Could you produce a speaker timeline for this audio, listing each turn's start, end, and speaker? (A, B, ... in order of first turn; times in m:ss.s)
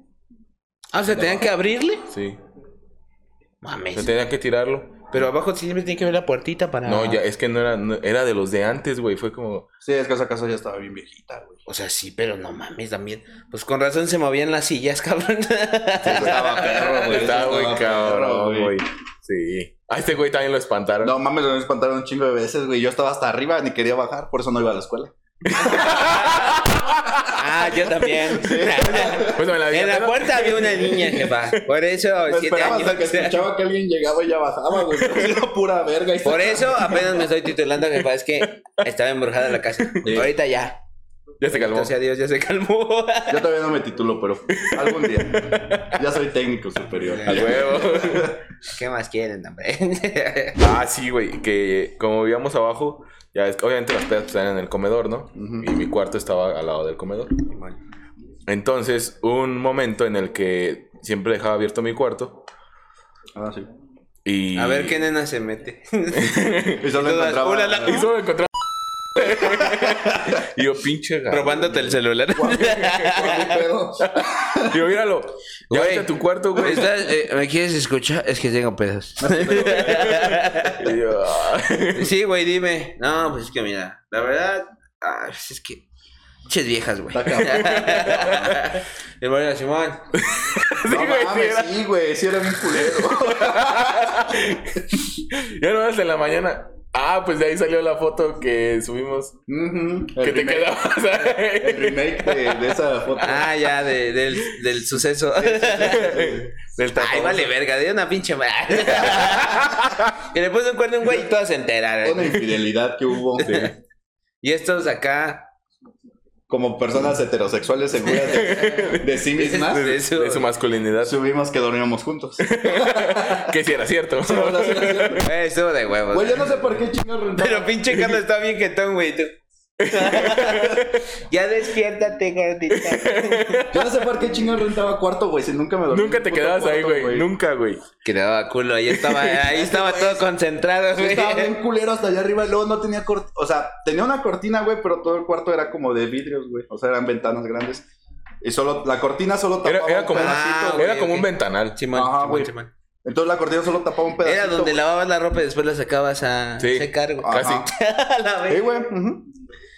0:00.9-0:02.1 A
0:01.1-0:01.4 B
0:02.1-0:02.4 B
0:03.6-0:04.2 A
0:03.9-0:05.2 B
0:05.1-0:07.2 A
0:06.8-0:09.7 B
0:09.8-0:11.6 C
0:11.6-0:17.9 A
0:16.0-0:18.8 C
0:17.0-0:21.1 B
0:21.0-0:26.2 C
0:25.4-0:27.4 B
0:25.6-0:26.6 A
0:27.2-0:33.4 A
0:28.2-0:29.5 C
0:29.0-0:31.6 B
0:32.2-0:37.1 C
0:34.9-0:35.2 B
0:36.2-0:40.8 A
0:39.9-0:40.3 B
0:41.4-0:41.9 B
0:41.5-0:43.4 A
0:43.3-0:48.4 C
0:44.5-0:46.0 B
0:47.1-0:47.7 A
0:47.2-0:48.4 B
0:48.6-0:50.6 A
0:50.6-0:57.3 B
0:55.3-0:55.7 C
0:57.5-0:57.8 A
0:58.5-1:02.4 B
1:03.3-1:03.7 C
1:04.2-1:05.0 B
1:04.5-1:08.1 A
1:06.2-1:06.8 B
1:06.8-1:08.1 C
1:07.9-1:08.5 B
1:09.1-1:11.9 B
1:09.2-1:10.3 C
1:11.3-1:13.6 A
1:12.4-1:14.8 C
1:12.4-1:13.4 B
1:14.0-1:17.1 B
1:15.7-1:20.9 A
1:19.2-1:20.4 C
1:19.7-1:22.1 B
1:21.9-1:25.8 A
1:26.4-1:30.1 A
1:27.1-1:28.2 C
1:27.5-1:28.6 B
1:30.2-1:31.8 B
1:30.8-1:34.1 C
1:32.5-1:39.4 B
1:39.5-1:43.5 C
1:40.2-1:42.8 B
1:43.2-1:46.2 A
1:45.4-1:46.5 C
1:45.8-1:47.5 B
1:46.9-1:52.5 A
1:49.0-1:50.1 B
1:52.0-1:53.6 C
1:53.4-1:53.7 A
1:53.4-1:53.7 B
1:54.4-1:55.5 A
1:56.5-2:00.0 C
1:58.1-1:58.5 A
1:58.1-2:01.2 B
1:59.3-2:00.5 A
2:01.0-2:03.6 C
2:02.4-2:05.2 B
2:04.2-2:05.3 C
2:05.2-2:06.8 A
2:06.1-2:07.8 C
2:07.3-2:13.6 A
2:07.9-2:08.2 B
2:09.8-2:11.0 B
2:12.8-2:13.9 B
2:13.7-2:17.3 C
2:15.9-2:17.8 B
2:18.0-2:21.5 A
2:18.9-2:19.4 B
2:19.6-2:20.2 C
2:20.9-2:27.8 C
2:28.4-2:30.8 C
2:29.6-2:31.8 B
2:30.1-2:32.7 A
2:31.9-2:32.5 C
2:33.0-2:34.8 C
2:34.2-2:38.8 A
2:36.6-2:37.7 B
2:37.2-2:37.7 C
2:38.5-2:39.3 C